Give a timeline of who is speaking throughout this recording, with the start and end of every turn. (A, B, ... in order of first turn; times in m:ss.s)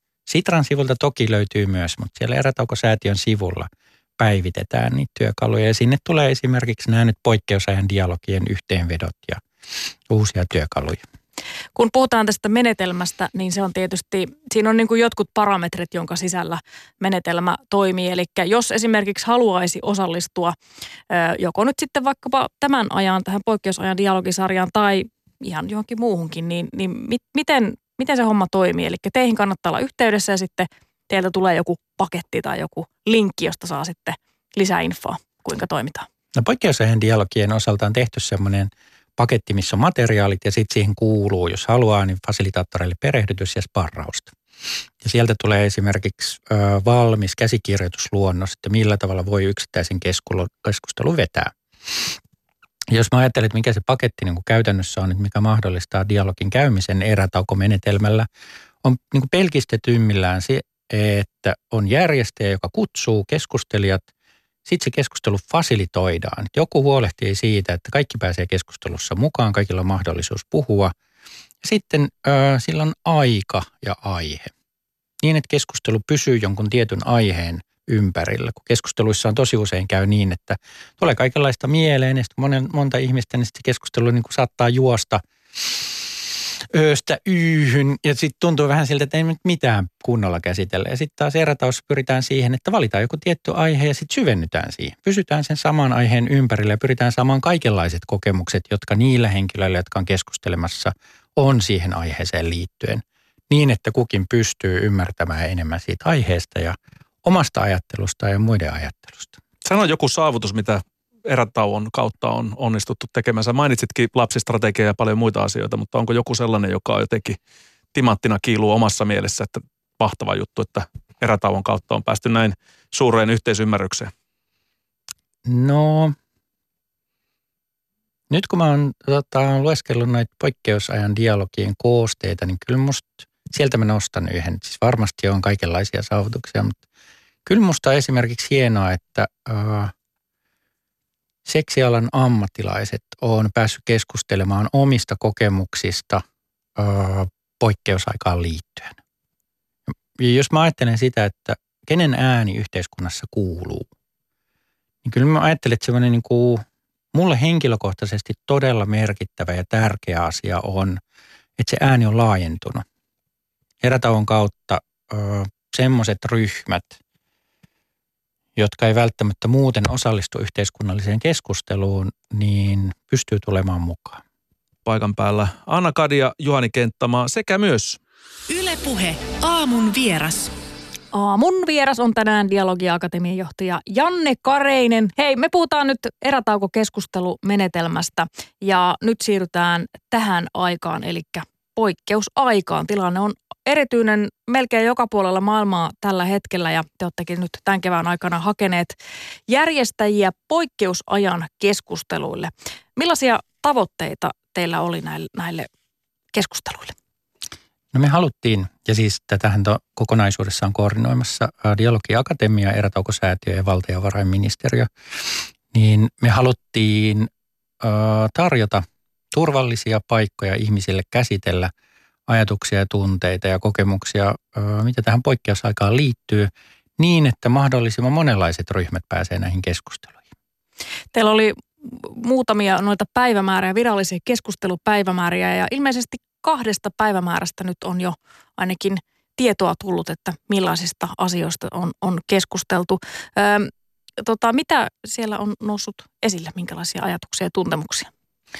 0:00.3-0:09.4 A
0:10.1-0:11.0 A
0:11.7-0:20.5 B
0:21.1-0:36.0 B
0:36.4-0:44.3 A
0:45.0-0:52.2 A
0:52.9-0:58.3 A
0:58.8-1:04.1 A
1:04.6-1:10.9 A
1:11.6-1:14.5 A
1:15.2-1:49.4 A
1:49.6-1:57.4 C
1:57.9-2:04.1 C
2:05.4-2:06.2 A
2:08.3-2:16.8 A
2:17.4-2:19.9 A
2:21.4-2:26.2 A
2:26.8-2:29.0 A
2:30.2-2:33.9 A
2:35.0-2:41.0 A
2:41.6-2:42.8 A
2:43.8-2:47.0 A
2:48.6-2:54.2 A
2:54.8-2:58.0 C
2:58.5-3:00.5 D
3:01.1-3:19.0 B
3:19.5-3:25.7 B
3:26.3-3:26.9 B
3:27.9-3:37.3 A
3:37.8-3:41.7 A
3:42.3-3:50.2 A
3:51.1-4:08.1 B